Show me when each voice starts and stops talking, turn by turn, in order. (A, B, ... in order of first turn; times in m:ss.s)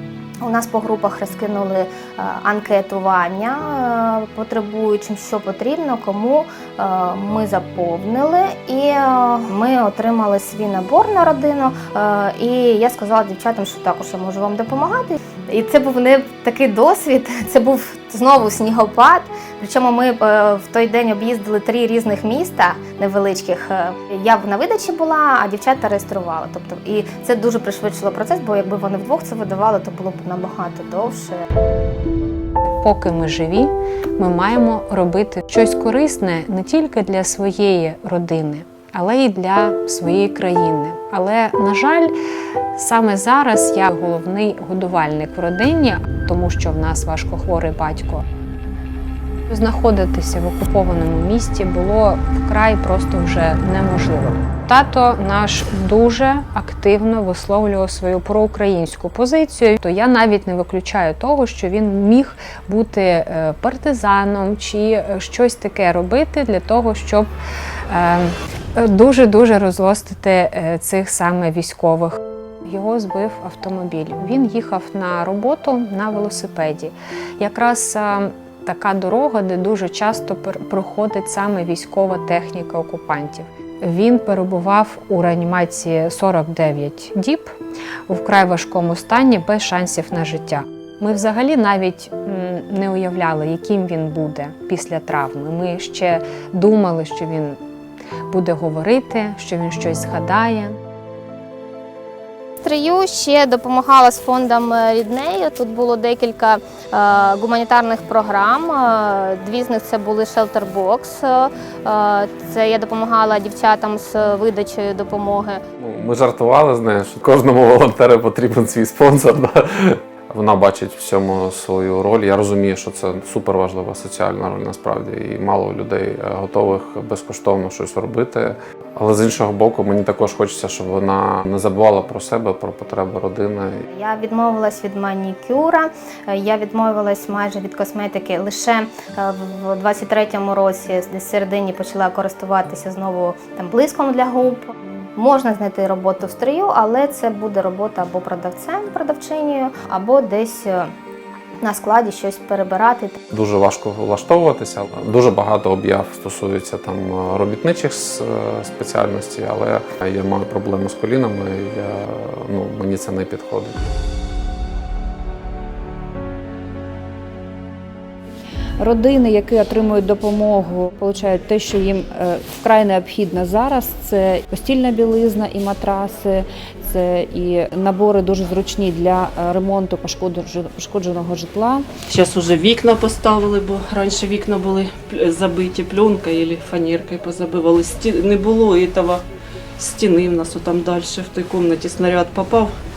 0:00.4-0:31.4 A
0:32.8-0:42.1 B
0:42.8-0:48.2 B
0:49.5-1:07.3 B
1:07.9-1:27.5 B
1:28.1-1:37.6 B
1:38.3-1:40.8 B
1:42.6-1:55.6 A
1:55.8-2:13.8 C
2:13.9-2:30.9 A
2:31.6-2:33.2 A
2:33.3-2:43.8 C
2:48.8-3:01.9 D
3:02.1-3:09.2 E
3:09.8-3:12.7 E